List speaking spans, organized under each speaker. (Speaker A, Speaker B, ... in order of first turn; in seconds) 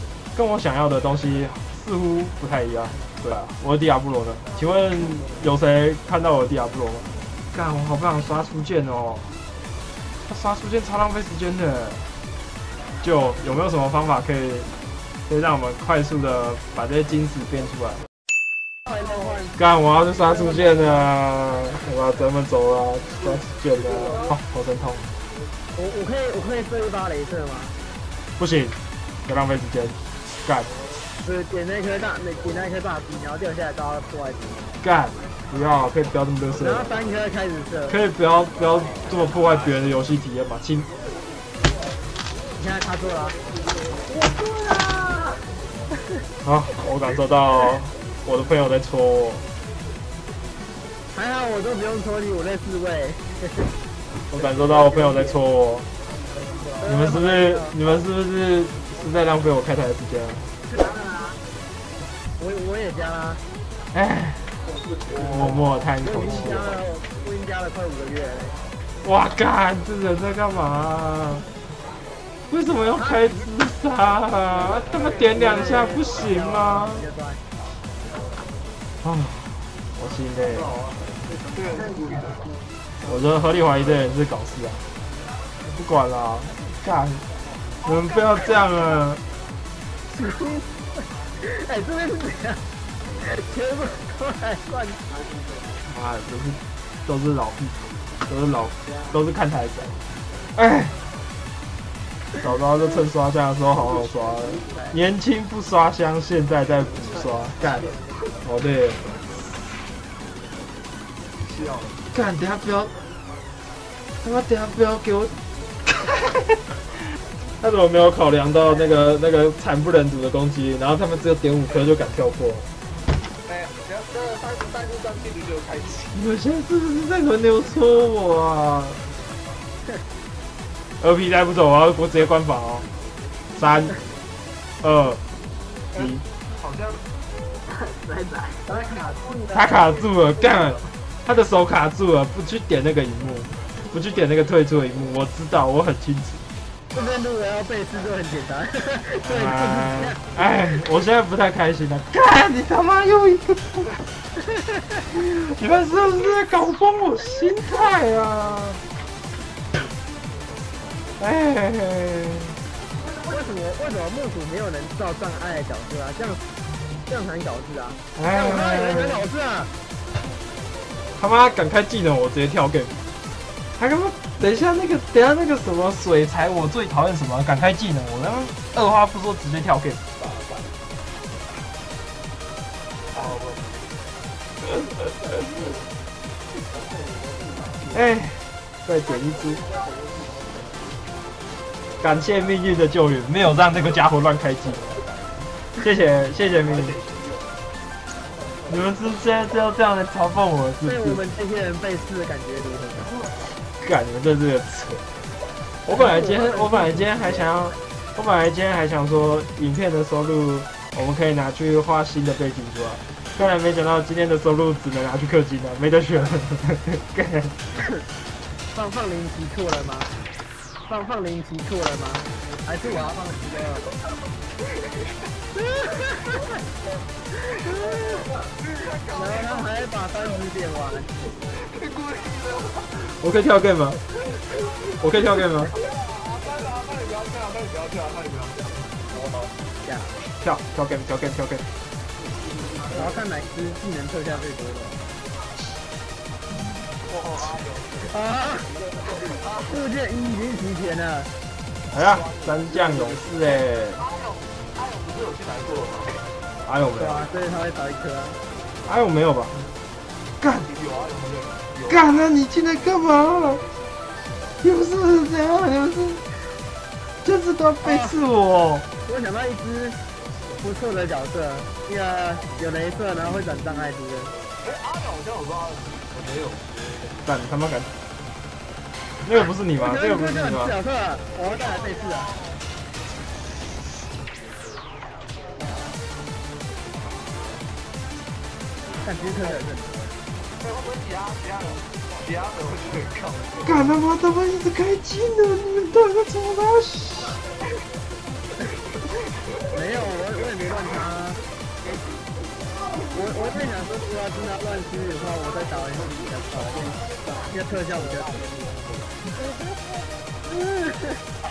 Speaker A: 0.3-9.3, 10.3-12.0, 13.0-14.7, 15.3-18.0, 19.6-25.1, 28.4-30.7, 34.8-36.9, 37.9-40.9, 46.4-49.5, 54.3-55.9, 56.8-60.5, 63.9-64.5, 65.1-66.8, 69.0-71.5, 72.5-77.0, 79.0-80.7, 83.0-84.8, 85.7-87.2, 87.8-89.2, 95.9-100.0, 100.5-101.0, 102.3-107.9, 108.4-109.0, 112.1-112.9, 114.2-115.3, 117.6-122.7, 126.1-129.0, 131.0-132.9, 133.6-134.0, 134.8-135.2, 135.9-136.2, 139.5-146.4, 149.2-153.9, 155.1-158.8, 161.2-162.6, 168.1-169.2, 171.2-172.9, 173.8-180.0, 187.9-189.6, 192.0-194.9, 195.8-197.0, 198.7-201.2, 203.8-205.0, 205.8-217.5, 233.0-234.0, 235.0-235.7, 240.4-241.7, 251.9-254.1, 256.6-257.3, 258.9-259.6, 260.4-260.7, 261.9-263.6, 264.6-266.2, 267.2-268.9, 277.2-277.9, 279.2-280.7, 293.6-297.4
Speaker B: 18.9-19.6, 20.3-21.0, 25.7-27.7, 31.2-34.7, 36.5-38.0, 42.6-43.4, 51.1-53.7, 56.8-57.8, 60.8-61.2, 62.4-63.4, 66.0-68.5, 73.0-73.3, 75.3-77.4, 90.1-92.6, 93.2-95.0, 138.6-139.8, 146.9-150.3, 154.5-155.0, 163.2-166.4, 167.1-169.7, 200.8-203.1, 205.9-206.9, 218.7-220.1, 220.9-223.6, 225.6-226.5, 227.3-228.3, 229.1-231.1, 239.8-240.1, 242.9-245.0, 248.0-248.7, 249.6-251.3, 256.9-258.4, 267.8-268.1, 269.1-270.0, 270.6-274.3, 279.8-282.3, 289.0-290.1, 299.7-301.4, 303.1-306.9, 307.5-308.4, 310.4-311.2
Speaker C: 81.6-82.2, 111.4-112.0, 123.5-126.1, 136.6-137.0, 183.1-183.6, 223.1-223.8, 228.5-229.6, 231.6-232.9, 235.8-239.2, 247.1-247.9, 249.2-249.7, 254.0-256.2, 260.7-261.9, 274.6-276.4, 290.6-293.6